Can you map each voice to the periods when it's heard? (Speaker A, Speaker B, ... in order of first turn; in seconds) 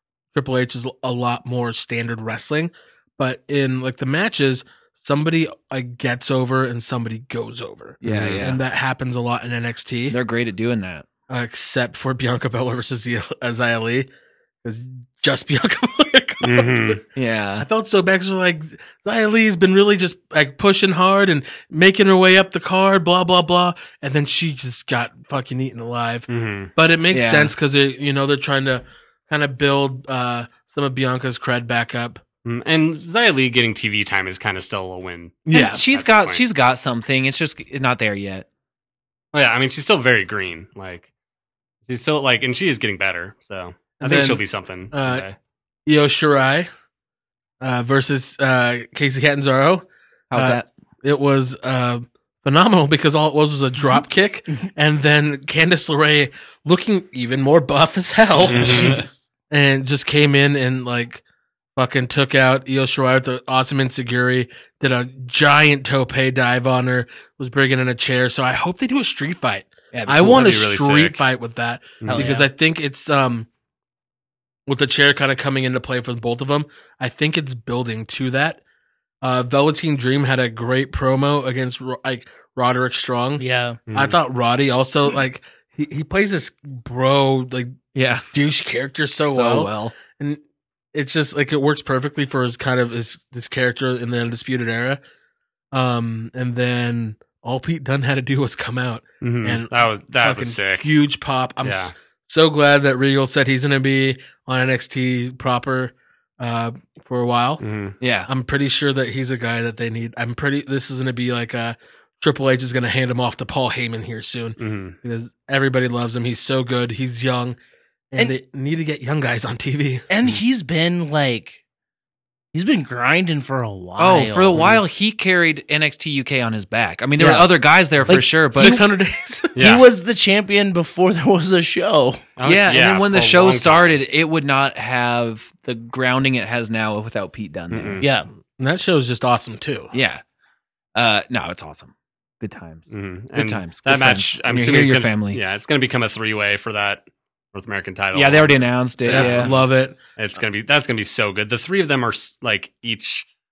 Speaker A: 0.3-10.2, 11.3-14.1, 14.6-17.0, 17.6-32.2, 35.5-35.8, 44.0-45.2, 45.9-46.7, 47.6-61.2, 61.8-73.5, 74.7-78.6, 79.2-87.7, 88.3-90.4, 90.9-95.0, 95.7-99.7, 100.2-107.6, 108.3-117.6, 118.1-120.0, 128.5-129.5, 138.6-139.9, 149.1-150.0
Speaker B: 8.0-8.6, 10.1-11.1, 17.1-17.7, 27.1-27.5, 35.5-38.5, 50.3-50.7, 58.5-59.1, 69.9-70.5, 87.9-88.3, 89.3-89.9, 108.0-108.3, 124.0-128.9, 132.4-138.0, 139.9-140.2, 140.9-145.4, 148.1-149.5
Speaker C: 8.1-8.5, 16.4-17.0, 26.3-26.7, 32.4-36.4, 39.3-41.1, 41.9-45.4, 58.4-59.0, 70.2-71.2, 72.0-72.3, 83.9-84.2, 99.2-100.9, 101.6-101.9, 107.6-108.0, 114.6-115.0, 124.5-124.8, 129.5-129.8, 132.4-134.0, 137.7-138.1, 142.9-153.3
Speaker D: 72.0-72.5, 83.4-83.8, 120.1-121.6, 122.5-124.6, 127.2-127.5, 128.1-128.7, 129.6-132.2, 138.0-138.3